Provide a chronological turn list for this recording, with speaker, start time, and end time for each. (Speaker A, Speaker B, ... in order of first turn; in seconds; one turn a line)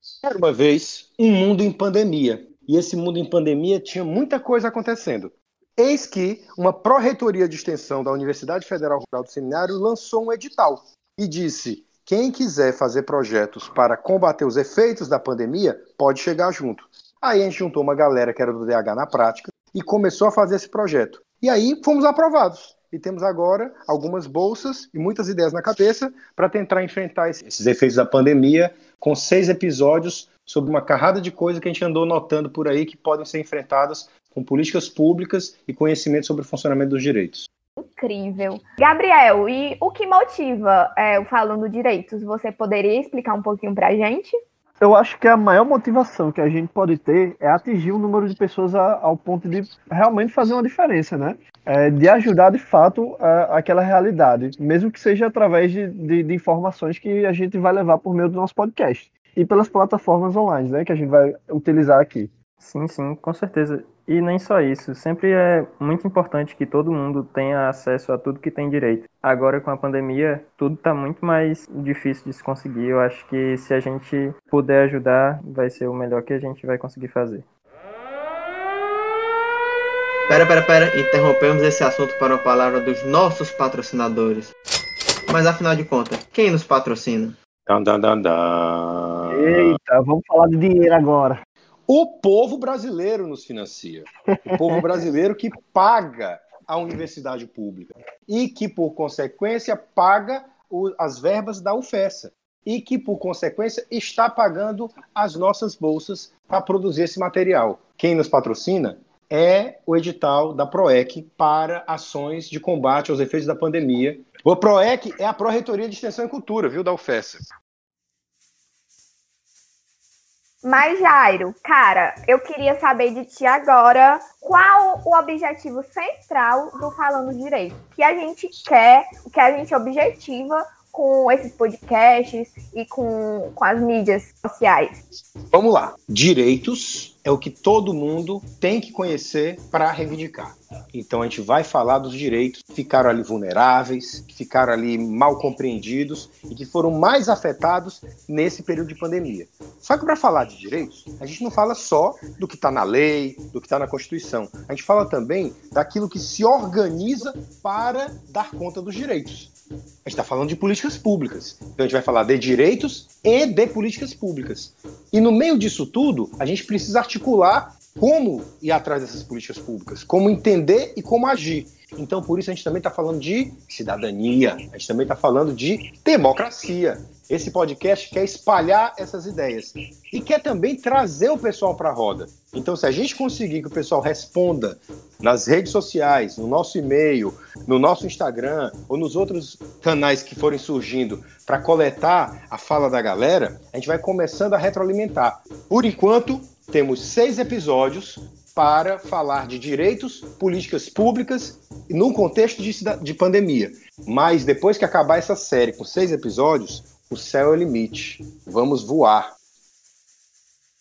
Speaker A: 0.2-37.5
Speaker B: 37.8-44.3
Speaker C: 44.8-62.3
Speaker D: 62.6-77.5
Speaker E: 80.3-84.5
Speaker E: 85.3-87.3
Speaker A: 87.7-89.8
Speaker C: 89.3-91.4
Speaker A: 91.9-117.4
Speaker C: 94.3-94.8
Speaker B: 120.6-134.9
Speaker A: 135.5-159.5
Speaker A: 160.0-209.3